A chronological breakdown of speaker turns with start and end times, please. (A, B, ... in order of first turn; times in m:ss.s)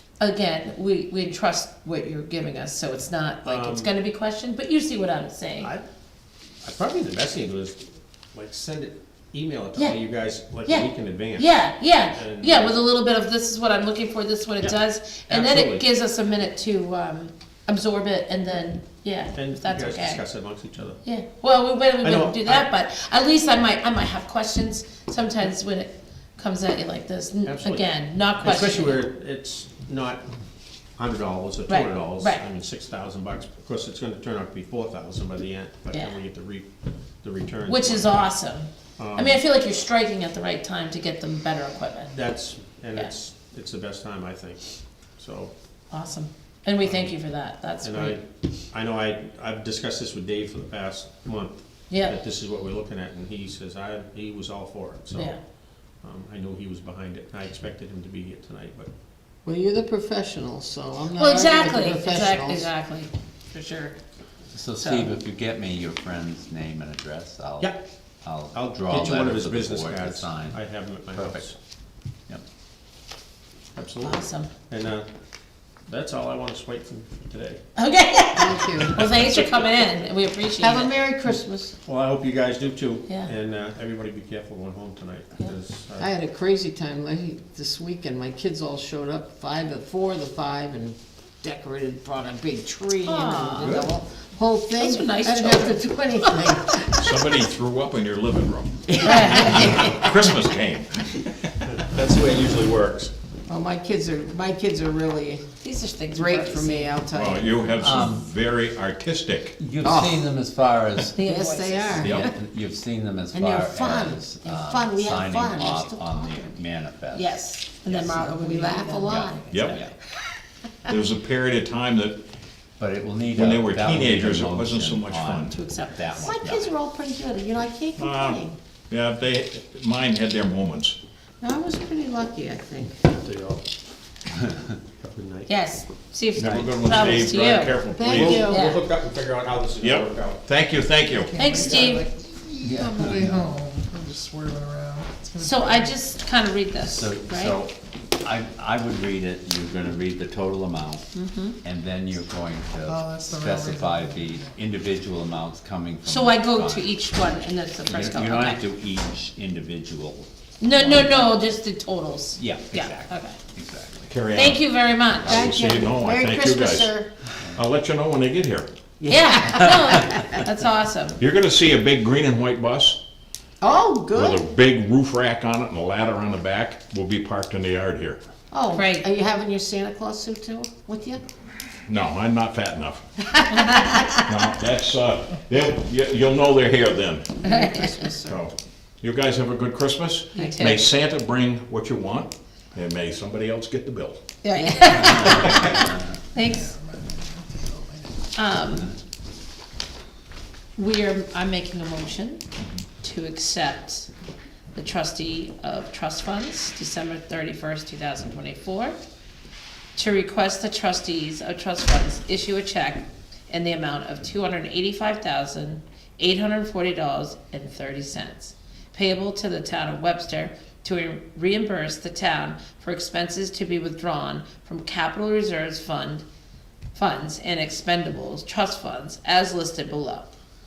0:00.2-0:05.7 A
0:03.4-0:03.9 B
0:05.6-0:05.8 B
0:06.6-0:12.8 B
0:09.8-0:10.0 A
0:10.6-0:20.2 A
0:15.3-0:15.9 B
0:19.3-0:21.0 B
0:21.0-0:29.0 A
0:22.0-0:22.7 B
0:27.4-0:27.9 B
0:28.4-0:30.2 B
0:31.0-0:36.6 B
0:31.7-0:32.4 A
0:35.9-0:36.2 A
0:37.2-0:38.3 B
0:37.6-0:42.1 A
0:39.0-0:39.4 B
0:42.1-0:45.5 B
0:45.9-0:48.2 A
0:46.8-0:47.1 B
0:47.8-0:55.3 B
0:51.9-0:52.2 A
0:56.0-0:58.9 B
0:59.4-1:02.7 C
1:01.1-1:04.0 A
1:04.5-1:10.6 D
1:04.8-1:05.1 A
1:08.5-1:11.5 B
1:11.2-1:11.5 D
1:13.7-1:15.1 B
1:14.0-1:14.5 A
1:15.9-1:17.6 B
1:17.8-1:20.9 A
1:18.3-1:19.0 C
1:20.6-1:21.7 C
1:21.8-1:26.1 B
1:23.1-1:23.3 A
1:26.0-1:37.1 C
1:33.0-1:33.8 A
1:33.6-1:33.9 B
1:34.8-1:36.5 A
1:37.0-1:41.2 E
1:38.9-1:40.2 C
1:39.0-1:39.7 A
1:41.6-1:43.1 B
1:43.5-1:45.4 C
1:45.6-1:47.0 A
1:46.1-1:47.7 C
1:47.1-1:49.6 E
1:47.8-1:48.2 D
1:49.6-1:51.2 D
1:49.8-1:50.3 C
1:51.2-1:52.0 A
1:51.2-1:52.3 C
1:52.0-1:58.2 D
1:52.0-1:52.3 E
1:53.3-1:56.6 C
1:57.1-1:59.8 A
1:58.1-1:59.8 C
1:59.5-1:59.8 E
1:59.6-1:59.9 D
2:00.9-2:02.2 E
2:02.8-2:06.7 D
2:03.3-2:05.6 E
2:05.5-2:06.2 A
2:06.2-2:08.6 C
2:08.0-2:11.0 E
2:11.4-2:13.0 C
2:13.1-2:13.6 B
2:15.0-2:15.5 B
2:15.5-2:17.8 A
2:16.3-2:18.5 E
2:16.4-2:16.9 D
2:17.9-2:18.7 C
2:18.0-2:20.4 B
2:18.3-2:18.8 A
2:19.8-2:21.4 E
2:21.3-2:22.1 A
2:21.4-2:21.8 F
2:21.8-2:22.0 C
2:22.6-2:23.6 D
2:22.6-2:25.8 F
2:25.4-2:27.6 A
2:26.8-2:36.9 D
2:31.1-2:31.6 A
2:32.9-2:34.4 F
2:36.0-2:38.6 A
2:37.9-2:41.4 D
2:40.6-2:43.4 A
2:42.4-2:44.1 D
2:44.1-2:44.6 E
2:44.3-2:45.5 A
2:45.2-2:47.1 C
2:45.3-2:47.0 E
2:47.5-2:48.7 E
2:49.0-2:50.4 C
2:49.0-2:51.2 A
2:51.2-2:53.0 E
2:53.6-2:54.4 C
2:54.1-2:58.2 E
2:58.5-3:01.2 C
2:58.7-2:59.0 A
3:01.9-3:03.0 E
3:03.5-3:04.0 A
3:03.6-3:04.0 C
3:04.1-3:07.4 E
3:07.4-3:07.9 A
3:07.4-3:08.4 C
3:08.2-3:14.2 E
3:10.3-3:10.8 A
3:14.4-3:16.8 A
3:14.8-3:15.9 D
3:15.2-3:15.8 E
3:18.3-3:18.9 A
3:20.8-3:22.4 A
3:23.0-3:24.1 A
3:24.7-3:29.0 A
3:29.9-3:46.2 A
3:46.9-3:50.3 A